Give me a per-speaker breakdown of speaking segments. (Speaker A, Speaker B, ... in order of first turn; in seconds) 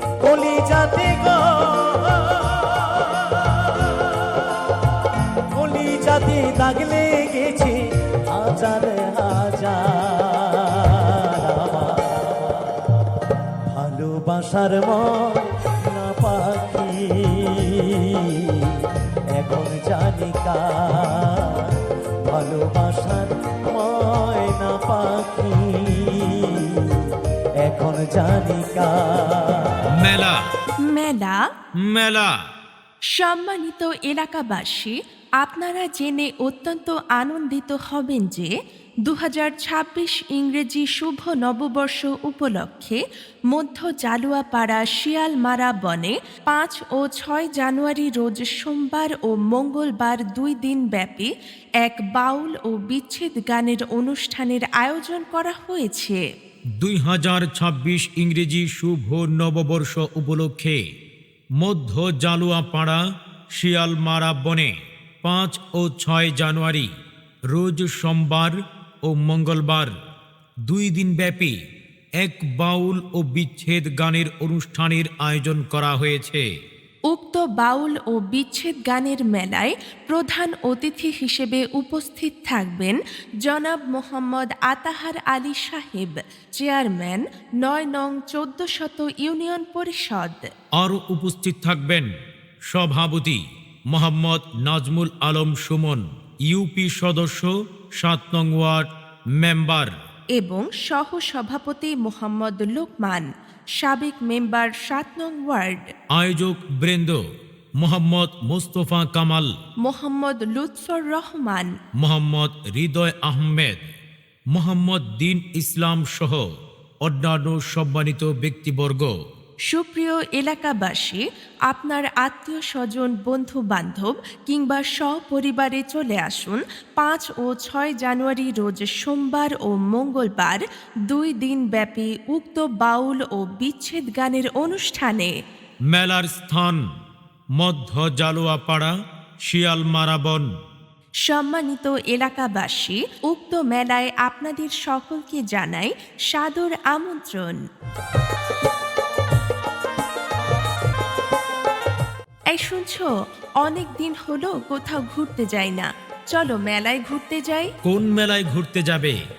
Speaker A: 0.2-4.1, 5.5-7.8, 8.3-12.7, 13.7-18.7, 19.4-21.7, 22.2-26.9, 27.6-29.8
Speaker B: 30.0-30.4, 31.8-32.4, 56.8-60.8, 61.6-63.0, 63.5-66.9, 67.5-69.9, 70.7-71.5, 72.2-76.5, 90.8-92.1, 92.7-93.4, 93.9-98.9, 99.4-99.9, 106.1-107.2, 107.8-109.5, 112.0-113.8, 114.5-116.5, 117.0-119.1, 135.9-136.8, 137.6-138.9, 139.5-140.5, 157.8-159.2
Speaker C: 30.9-31.4, 33.1-38.5, 39.0-43.0, 43.5-51.3, 51.8-56.2, 77.1-90.5, 100.4-103.3, 103.8-105.9, 109.8-111.7, 119.7-135.3, 141.3-147.6, 152.5-153.1, 153.6-157.7